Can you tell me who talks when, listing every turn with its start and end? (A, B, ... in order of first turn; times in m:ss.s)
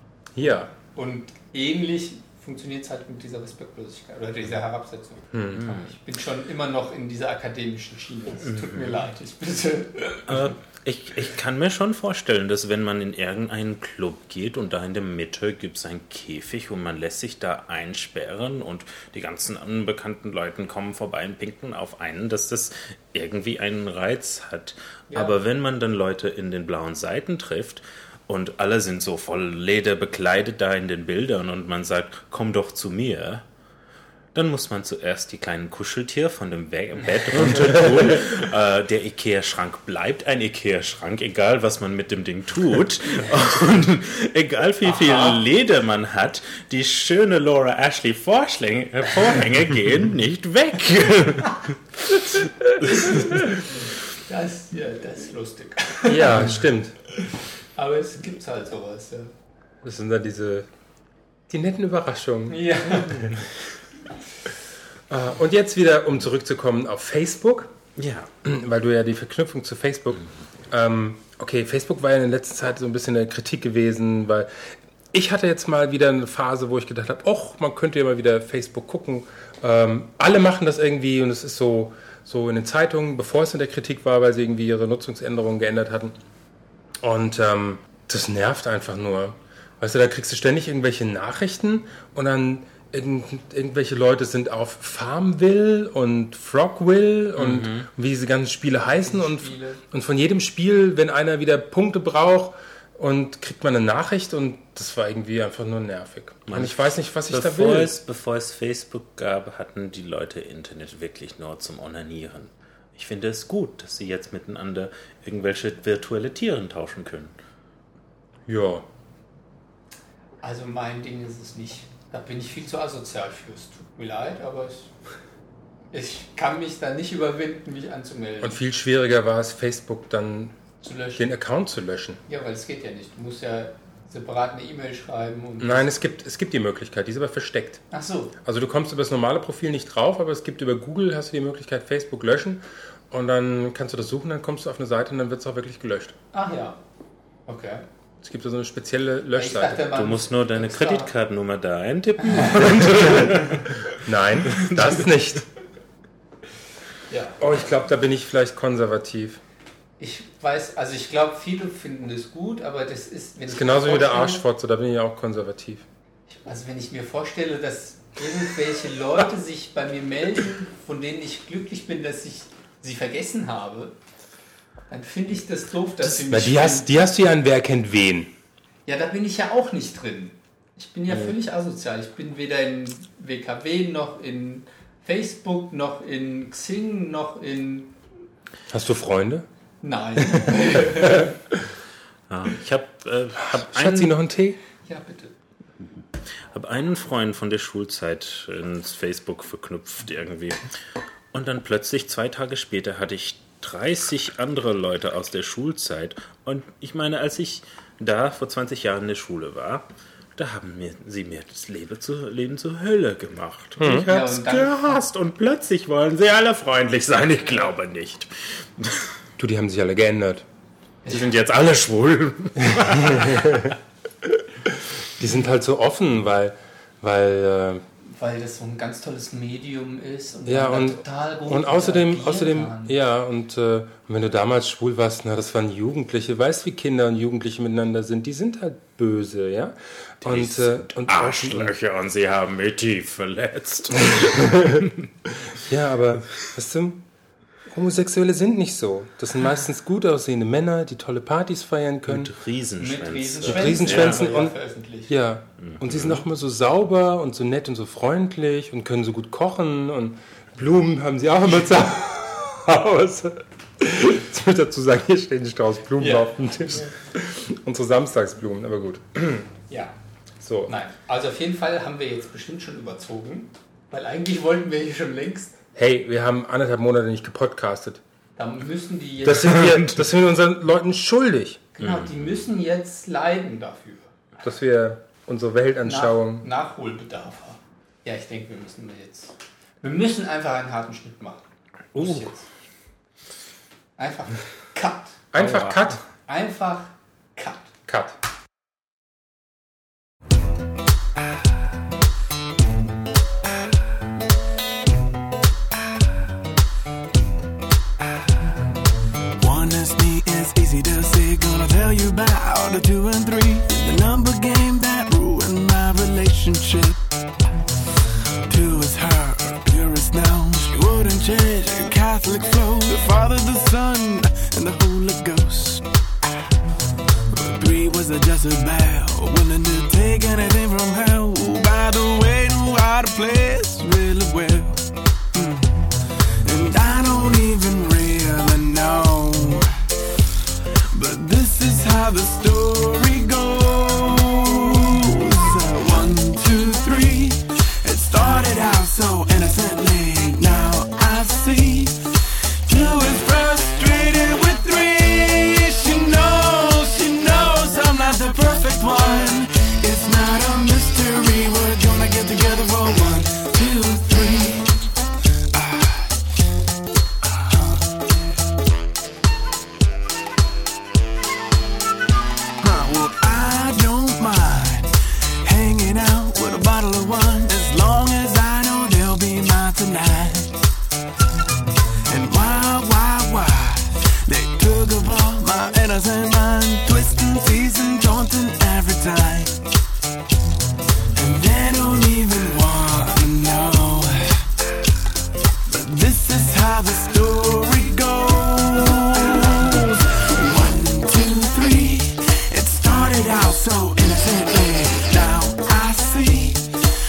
0:00.4-0:00.7 A
0:00.8-0:10.5 B
0:05.3-0:05.6 A
0:05.6-0:05.9 C
0:08.5-0:08.9 C
0:10.3-0:33.4 C
0:25.1-0:25.4 B
0:34.3-0:52.2 C
0:44.8-0:45.4 B
0:52.8-0:56.5 B
0:52.9-0:53.5 C
0:56.0-0:57.0 A
0:57.8-0:59.3 B
0:59.8-1:00.7 A
1:01.5-1:03.3 A
1:02.5-1:03.3 B
1:05.1-1:07.7 A
1:08.0-1:08.3 C
1:08.4-1:14.5 A
1:15.1-1:26.1 A
1:27.0-1:47.9 A
1:37.4-1:37.9 C
1:38.8-1:39.8 B
1:46.5-1:46.8 C
1:47.3-1:57.3 C
1:58.5-1:58.8 A
2:00.4-2:04.9 B
2:05.9-2:08.6 B
2:08.4-2:10.6 A
2:10.8-2:11.3 B
2:11.1-2:12.2 A
2:12.3-2:15.9 B
2:15.6-2:17.8 A
2:17.9-2:18.4 B
2:18.4-2:26.1 A
2:26.3-2:26.8 B
2:27.5-2:27.8 B
2:28.2-2:29.9 A
2:29.3-2:31.1 B
2:29.9-2:33.8 C
2:32.2-2:32.7 B
2:32.8-2:35.4 A
2:34.5-2:34.9 C
2:37.1-2:37.4 B
2:37.4-2:39.4 A
2:40.0-2:44.4 B
2:43.5-2:45.8 A
2:46.3-2:54.0 B
2:54.9-2:56.9 B
2:56.0-2:58.3 A
2:58.8-3:08.0 B
3:08.7-3:09.4 A
3:09.8-3:11.3 B
3:12.3-3:14.2 C
3:13.4-3:14.6 A
3:14.8-3:15.3 B
3:16.5-3:20.6 C
3:21.3-3:39.1 C
3:33.8-3:34.1 A
3:34.0-3:35.0 B
3:39.4-3:40.4 A
3:41.0-3:43.7 C
3:42.7-3:43.7 A
3:45.2-3:47.8 A
3:48.0-3:53.0 B
3:50.5-4:01.7 A
4:00.2-4:05.0 C
4:04.1-4:04.9 A
4:05.5-4:07.0 A
4:07.7-4:12.3 A
4:12.0-4:14.2 C
4:12.8-4:15.1 B
4:13.4-4:14.5 A
4:15.1-4:29.3 A
4:15.6-4:16.3 C
4:26.0-4:26.9 B
4:29.7-4:29.9 B
4:30.4-4:30.7 A
4:30.7-4:35.6 B
4:35.8-4:38.0 A
4:38.4-4:39.7 B
4:39.2-4:41.6 A
4:39.6-4:40.0 C
4:41.7-4:44.1 B
4:41.8-4:42.3 C
4:44.4-4:46.5 A
4:45.8-4:51.4 B
4:52.0-4:52.4 B
4:52.0-4:52.3 A
4:52.0-4:52.3 C
4:54.0-4:55.2 B
4:55.3-4:56.0 A
4:55.4-4:56.0 C
4:56.3-4:57.7 B
4:57.9-4:58.2 A
5:09.4-5:17.0 D
5:18.5-5:25.8 D
5:27.3-5:35.9 D
5:36.4-5:39.7 D
5:40.9-6:04.8 D
6:05.5-6:06.1 D
6:07.2-6:07.9 D
6:12.6-6:20.7 D
6:22.1-6:29.6 D
6:31.1-6:34.4 D
6:35.7-6:46.6 D